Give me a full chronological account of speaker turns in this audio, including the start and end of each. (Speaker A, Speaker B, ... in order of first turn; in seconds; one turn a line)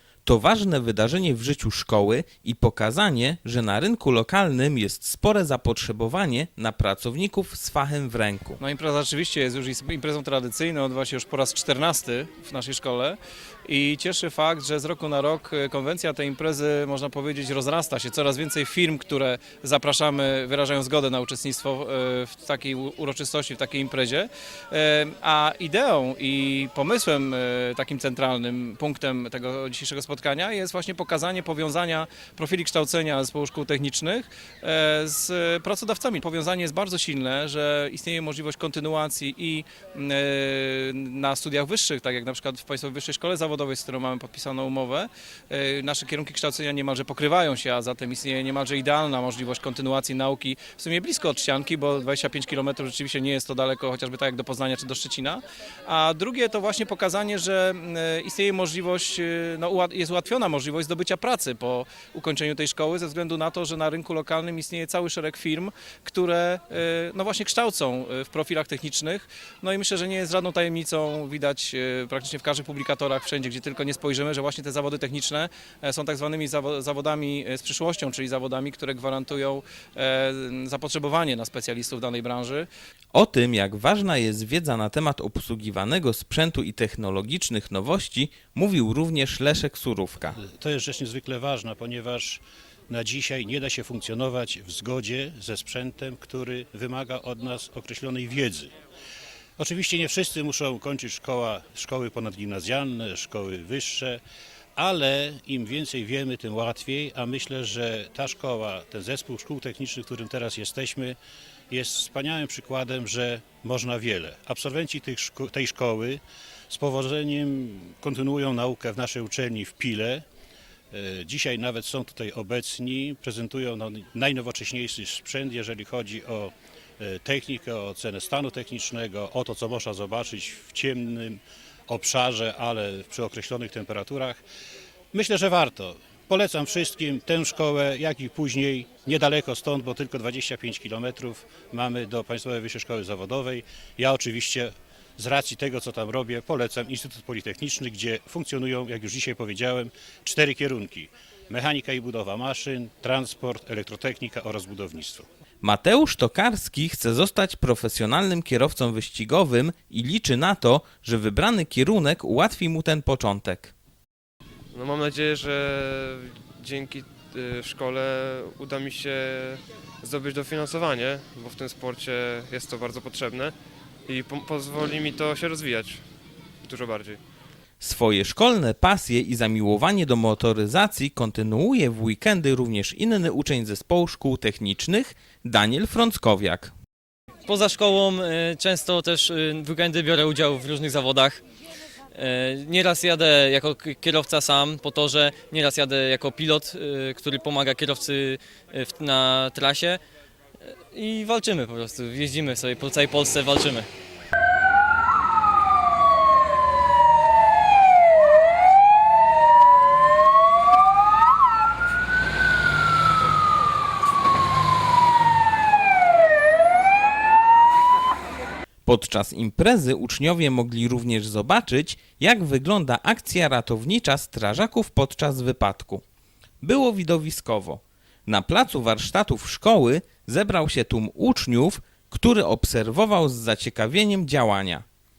Speaker A: 0.2-8.6
Speaker B: 8.6-82.7
Speaker A: 83.1-90.4
Speaker C: 90.4-98.7
Speaker C: 99.6-104.2
Speaker C: 104.8-111.2
Speaker C: 111.7-120.2
Speaker C: 120.9-134.4
Speaker C: 135.1-155.3
Speaker A: 155.6-163.7
Speaker D: 164.7-173.5
Speaker D: 174.1-176.0
Speaker D: 176.6-177.2
Speaker A: 177.8-186.7
Speaker E: 187.4-191.4
Speaker E: 192.1-200.0
Speaker E: 200.7-203.9
Speaker A: 218.8-226.0
Speaker A: 226.6-234.8